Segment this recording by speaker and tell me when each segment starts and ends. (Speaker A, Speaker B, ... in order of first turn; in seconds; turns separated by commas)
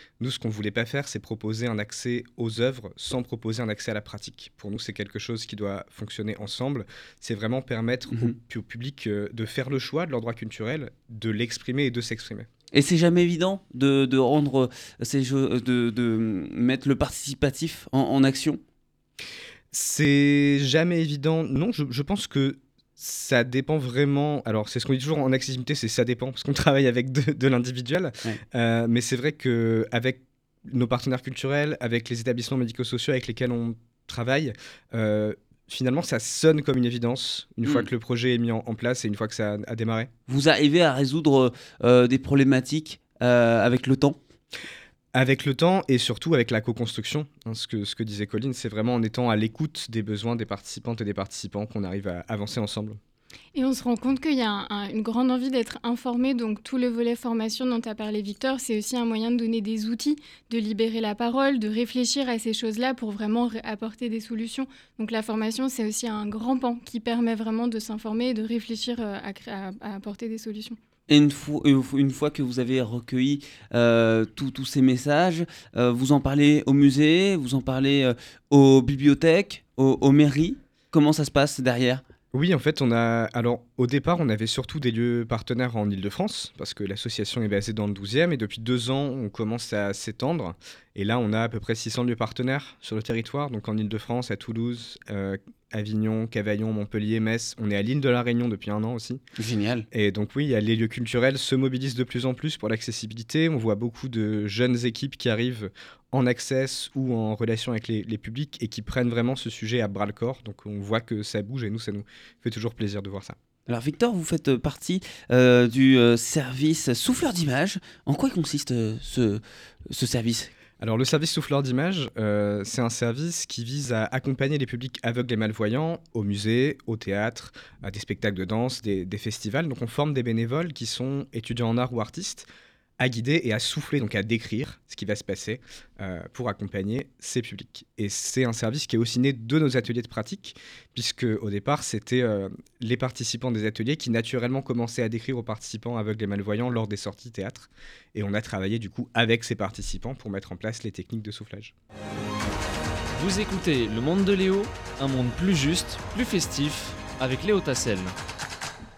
Speaker A: 0.2-12.5, Speaker B: 12.7-18.6, Speaker A: 19.7-40.1, Speaker B: 37.6-37.9, Speaker B: 40.3-44.2, Speaker A: 45.1-53.0, Speaker C: 53.5-70.8, Speaker B: 71.1-82.0, Speaker A: 82.3-99.2, Speaker B: 99.4-99.9, Speaker A: 99.9-113.3, Speaker B: 113.7-120.5, Speaker A: 120.8-132.5, Speaker A: 133.0-151.7, Speaker D: 153.2-158.1